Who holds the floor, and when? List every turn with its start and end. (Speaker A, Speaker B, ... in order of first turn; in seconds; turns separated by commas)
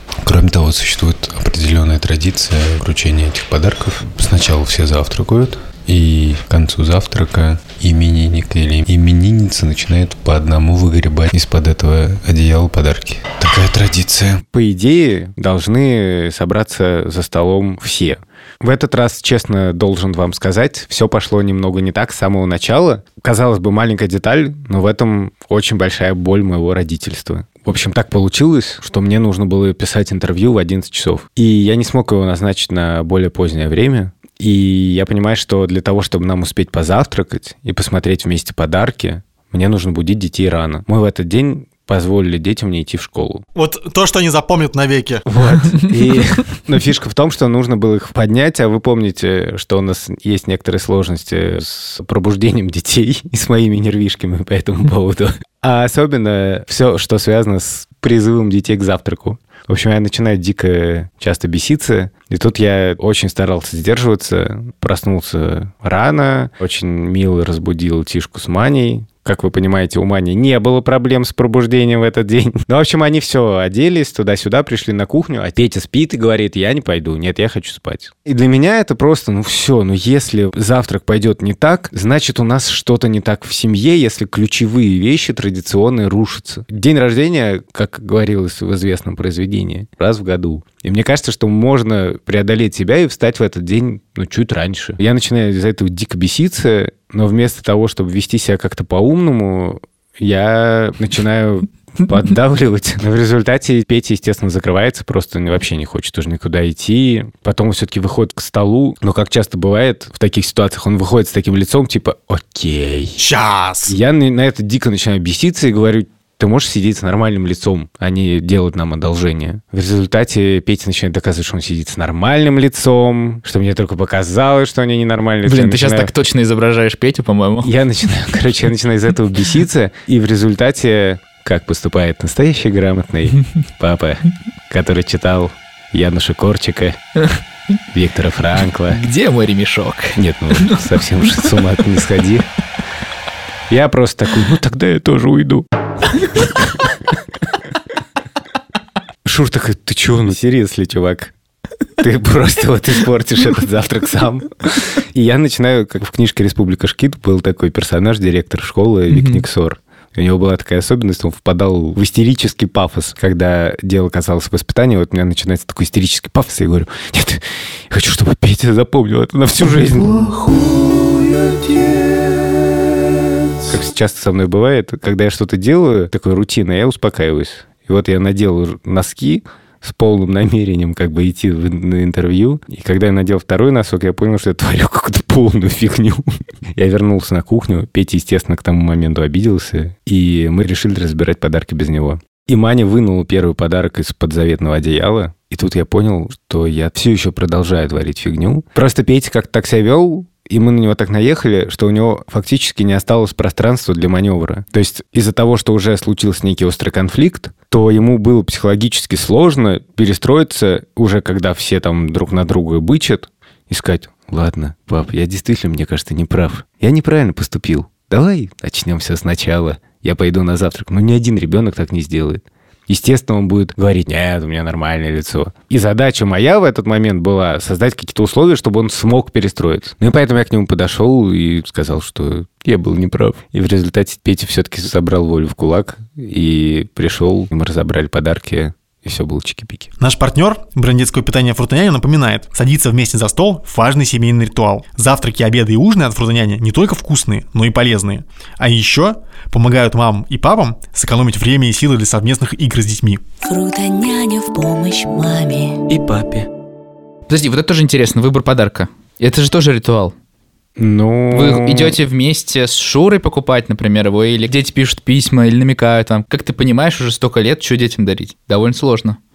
Speaker A: 0.2-14.4, Speaker B: 14.4-43.4, Speaker C: 43.5-45.2, Speaker B: 45.3-113.2, Speaker C: 113.2-113.9, Speaker B: 113.9-126.1, Speaker D: 125.5-127.7, Speaker B: 127.6-137.0, Speaker B: 137.9-139.0, Speaker D: 138.9-141.5, Speaker B: 140.2-142.5, Speaker B: 143.7-145.7, Speaker B: 146.3-146.6, Speaker B: 149.2-151.3, Speaker B: 152.0-170.2, Speaker D: 159.1-159.4, Speaker A: 170.3-172.7, Speaker B: 173.7-239.9, Speaker C: 240.0-253.2, Speaker E: 253.4-255.8, Speaker B: 255.9-256.5, Speaker D: 257.3-260.1, Speaker B: 260.8-262.0, Speaker D: 261.3-269.2